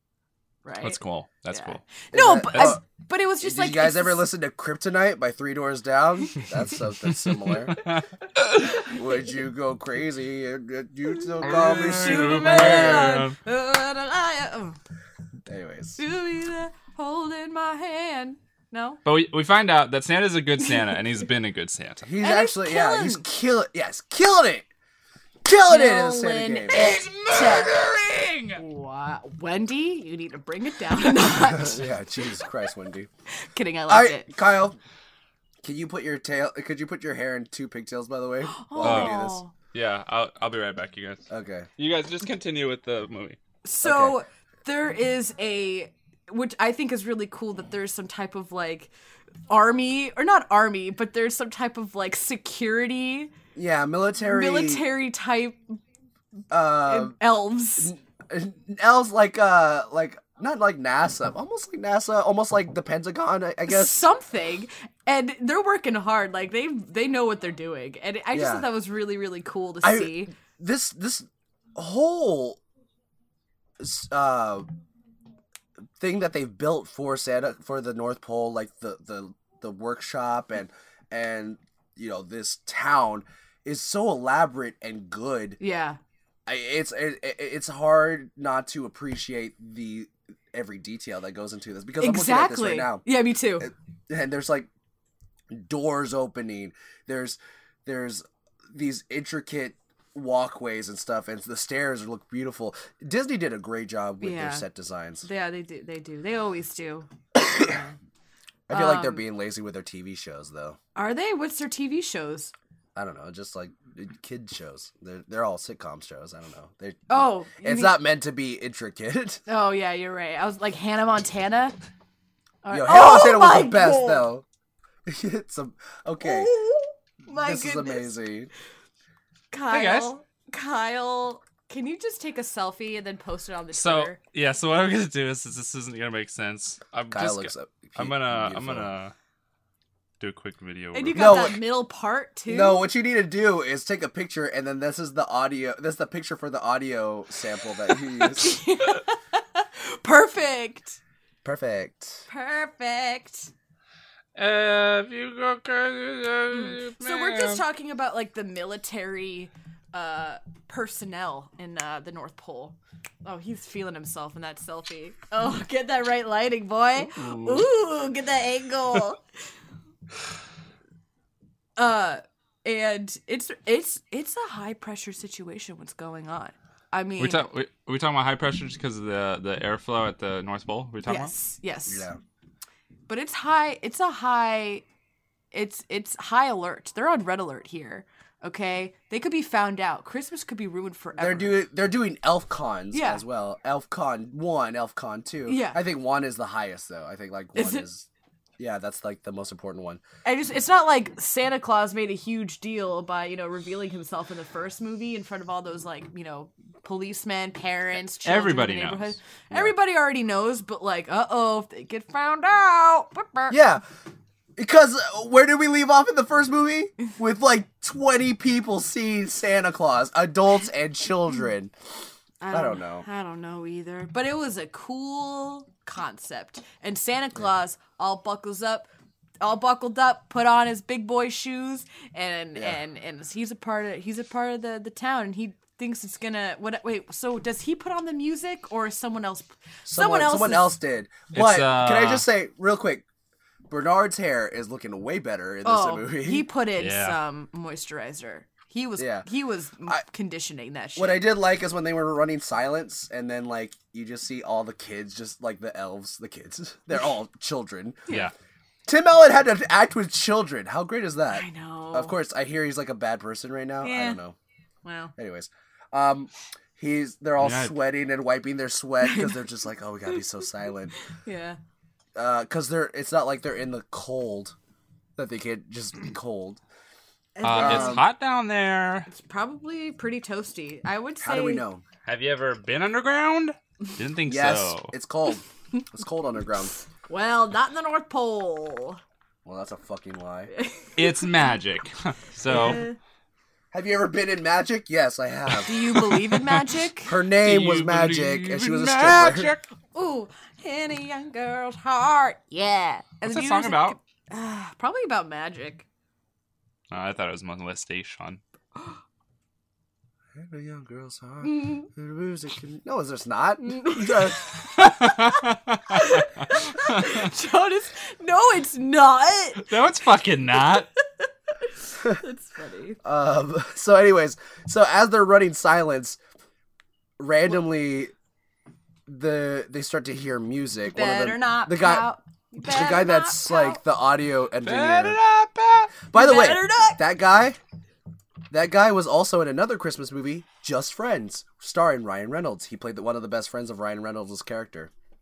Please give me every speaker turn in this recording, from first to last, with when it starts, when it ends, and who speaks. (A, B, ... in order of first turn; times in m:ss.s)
0:00.6-0:01.0 A
0:00.8-0:01.8 B
0:01.5-0:04.3 A
0:02.1-0:02.8 C
0:03.4-0:07.8 C
0:07.1-0:08.8 B
0:08.8-0:09.2 A
0:08.8-0:13.2 C
0:11.4-0:14.8 A
0:11.4-0:13.4 B
0:15.5-0:16.0 C
0:16.0-0:19.0 A
0:19.0-0:22.0 B
0:22.0-0:24.6 C
0:22.2-0:23.2 A
0:25.4-0:27.0 C
0:25.7-0:27.8 A
0:26.7-0:28.6 B
0:28.5-0:31.8 A
0:31.4-0:33.1 C
0:33.3-0:34.3 A
0:33.9-0:34.8 C
0:35.6-0:39.4 C
0:38.5-0:39.5 A
0:38.8-0:39.1 B
0:39.7-0:41.2 B
0:41.3-0:41.7 C
0:41.8-0:43.4 B
0:43.6-0:48.9 A
0:43.8-0:44.2 C
0:49.5-0:53.3 A
0:53.6-0:54.8 C
0:54.2-0:55.8 A
0:56.5-0:57.2 C
0:56.7-0:57.9 A
0:57.8-1:04.0 C
1:03.7-1:10.3 A
1:08.3-1:08.7 C
1:09.8-1:12.6 C
1:13.8-1:14.7 C
1:16.0-1:25.6 C
1:25.6-1:26.0 A
1:26.5-1:33.0 C
1:32.0-1:33.7 A
1:33.6-1:34.7 C
1:35.5-1:45.3 C
1:44.2-1:44.7 A
1:45.2-1:48.0 A
1:47.3-1:47.8 C
1:48.7-1:50.8 C
1:48.7-1:49.2 A
1:50.9-1:52.5 A
1:53.0-1:59.4 C
1:57.1-1:58.0 A
1:59.5-2:01.8 A
2:02.6-2:04.3 A
2:02.7-2:04.4 C
2:05.0-2:06.5 C
2:06.2-2:08.1 A
2:07.4-2:08.5 C
2:09.5-2:14.2 A
2:09.7-2:10.1 B
2:13.7-2:19.1 B
2:17.1-2:18.9 C
2:20.2-2:21.5 B
2:20.9-2:22.8 A
2:21.1-2:21.6 C
2:22.5-2:28.6 C
2:27.9-2:31.0 A
2:31.4-2:32.2 C
2:32.3-2:33.5 A
2:34.3-2:37.6 B
2:36.5-2:49.2 A
2:47.1-2:47.7 B
2:51.8-2:57.4 A
2:57.2-3:01.3 B
3:01.0-3:02.1 A
3:01.9-3:02.2 C
3:03.1-3:04.8 A
3:05.5-3:11.6 A
3:11.2-3:18.0 C
3:12.9-3:13.2 A
3:15.5-3:15.8 A
3:17.6-3:17.8 A
3:18.6-3:20.0 C
3:20.2-3:33.6 A
3:28.2-3:29.2 B
3:33.5-3:33.8 C
3:34.6-3:41.7 C
3:42.4-3:48.9 A
3:42.5-3:43.0 C
3:49.4-4:00.8 A
3:59.8-4:03.0 C
4:01.3-4:02.3 B
4:03.7-4:06.4 C
4:05.6-4:11.3 A
4:06.8-4:07.2 B
4:09.0-4:09.2 C
4:11.0-4:18.0 C
4:18.9-4:24.4 C
4:21.3-4:22.1 A
4:23.8-4:24.2 A
4:24.8-4:25.1 A
4:25.2-4:31.0 C
4:27.4-4:27.7 B
4:29.0-4:29.4 A
4:31.1-4:31.6 A
4:32.1-4:34.6 C
4:35.2-4:36.6 C
4:37.4-4:38.0 A
4:37.4-4:39.1 B
4:37.5-4:38.0 C
4:39.1-4:41.6 A
4:41.2-4:41.8 C
4:42.0-4:44.9 B
4:44.3-4:46.7 C
4:47.1-4:49.0 A
4:49.4-4:50.5 C
4:50.5-4:51.3 A
4:51.0-4:52.8 B
4:52.4-4:53.0 A
4:53.7-4:55.7 C
4:55.6-4:57.2 A
4:56.0-4:56.6 B
4:57.0-4:59.5 C
4:57.4-4:59.7 B
4:59.9-5:05.8 A
5:03.2-5:04.0 B
5:06.9-5:08.4 B
5:10.3-5:14.5 C
5:11.4-5:11.9 A
5:13.6-5:19.7 A
5:14.8-5:17.3 B
5:19.6-5:20.9 B
5:21.2-5:23.0 A
5:23.0-5:26.2 C
5:27.2-5:28.1 C
5:29.1-5:32.1 C
5:30.9-5:33.8 A
5:32.6-5:35.2 C
5:34.6-5:35.9 B
5:36.1-5:37.6 C
5:36.1-5:37.0 A
5:38.5-5:44.9 C